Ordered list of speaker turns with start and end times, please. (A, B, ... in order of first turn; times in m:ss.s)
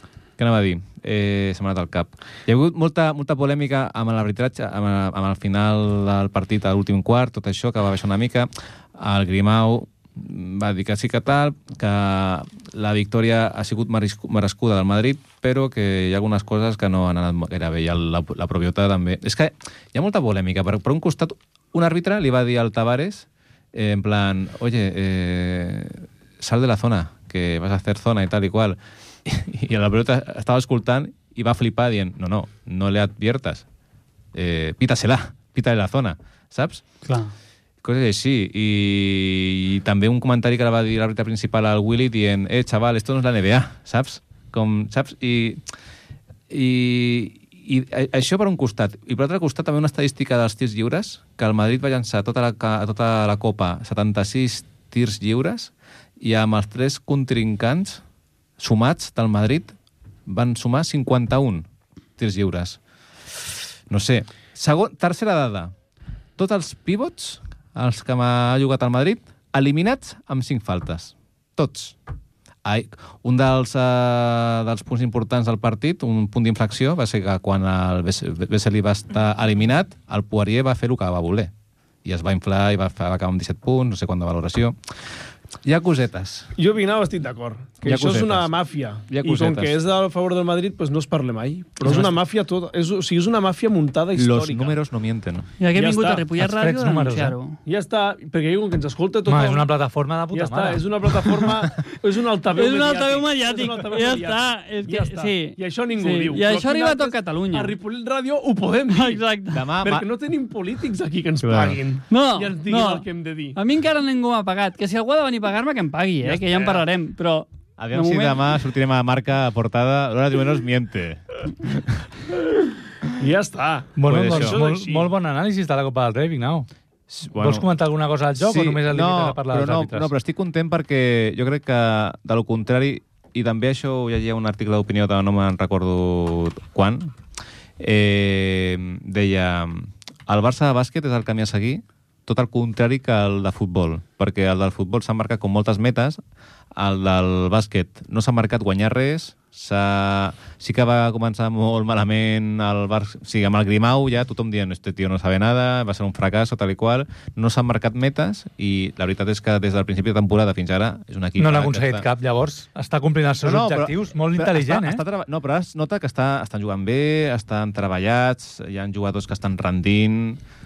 0:00.4-0:33.6 A
0:34.3-0:36.8 A
0:37.1-0:37.3 B
0:37.8-0:45.6 A
0:46.5-0:58.0 A
0:58.6-0:59.8 A
1:00.3-1:01.7 A
1:02.2-1:02.8 A
1:03.9-1:05.7 A
1:06.4-1:12.0 A
1:12.6-1:21.5 A
1:22.0-1:24.8 A
1:25.6-1:26.5 A
1:26.6-1:34.8 C
1:27.8-1:28.5 A
1:29.1-1:29.8 A
1:34.2-1:35.5 A
1:35.6-1:37.6 B
1:35.8-1:36.3 C
1:36.4-1:37.4 D
1:37.6-1:39.7 C
1:39.3-1:40.8 D
1:40.3-1:49.2 C
1:42.5-1:47.8 B
1:48.9-1:49.7 B
1:49.5-1:50.1 A
1:49.8-1:53.6 C
1:51.4-1:51.8 A
1:52.1-1:58.6 B
1:56.2-1:56.8 C
1:57.8-2:02.0 A
2:03.2-2:05.1 C
2:04.0-2:06.7 D
2:04.1-2:04.6 A
2:07.1-2:07.7 A
2:07.4-2:10.1 D
2:08.4-2:17.2 A
2:17.8-2:26.2 A
2:26.8-2:42.1 A
2:41.4-2:45.0 D
2:43.4-2:50.4 A